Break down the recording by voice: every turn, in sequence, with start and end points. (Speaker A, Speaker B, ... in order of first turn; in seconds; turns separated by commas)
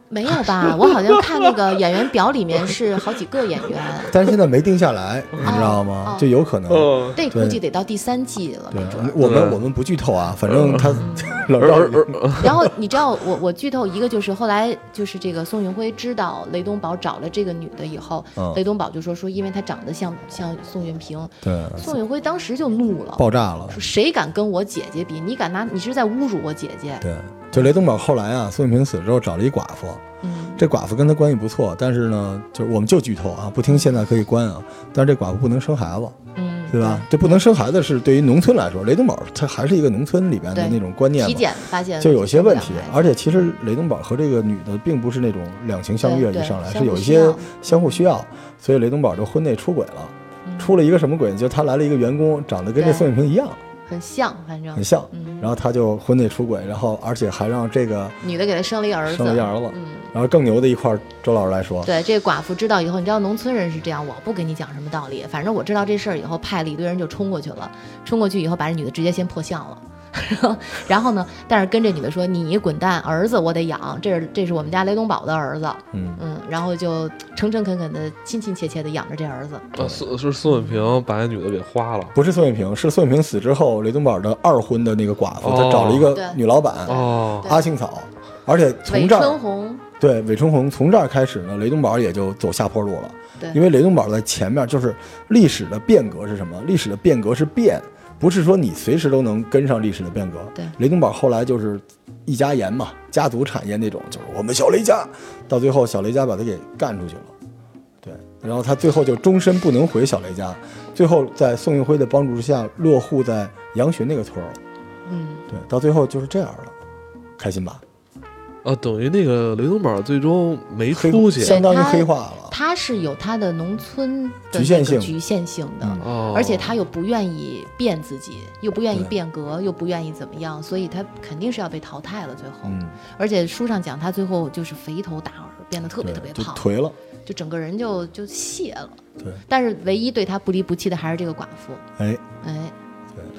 Speaker A: 0.1-4.1, Speaker B: 0.7-1.5, Speaker C: 4.1-7.6, Speaker A: 5.4-6.3, Speaker B: 6.7-7.2, Speaker A: 7.1-9.2, Speaker C: 8.7-12.5, Speaker B: 9.2-9.6, Speaker B: 10.4-12.5, Speaker A: 10.9-11.5, Speaker A: 12.3-27.7, Speaker C: 18.4-18.6, Speaker C: 21.4-21.9, Speaker C: 23.2-23.8, Speaker C: 27.0-30.0, Speaker A: 30.2-30.6, Speaker C: 30.6-36.1, Speaker A: 33.7-34.0, Speaker A: 36.3-37.4, Speaker C: 36.7-53.6, Speaker A: 40.5-43.6, Speaker A: 46.0-47.6, Speaker A: 50.4-50.8, Speaker A: 52.8-53.1, Speaker A: 53.9-55.5, Speaker C: 54.7-58.2, Speaker A: 58.2-60.1, Speaker C: 59.1-61.9, Speaker A: 61.8-79.7, Speaker C: 75.9-76.2, Speaker B: 79.8-82.2, Speaker C: 79.8-80.0, Speaker A: 80.4-81.0, Speaker C: 82.1-89.4, Speaker B: 85.4-86.2, Speaker A: 86.1-87.7, Speaker B: 86.9-87.5, Speaker A: 88.9-89.8, Speaker C: 90.0-107.3, Speaker C: 108.0-114.6, Speaker A: 115.0-115.5, Speaker C: 115.5-116.7, Speaker C: 117.4-117.8, Speaker B: 118.6-121.6, Speaker C: 120.9-122.5, Speaker A: 121.4-136.7, Speaker C: 124.5-125.2, Speaker B: 126.0-126.8, Speaker C: 132.6-133.0, Speaker C: 136.0-136.9, Speaker A: 137.2-141.8, Speaker C: 142.0-142.2, Speaker A: 142.4-142.7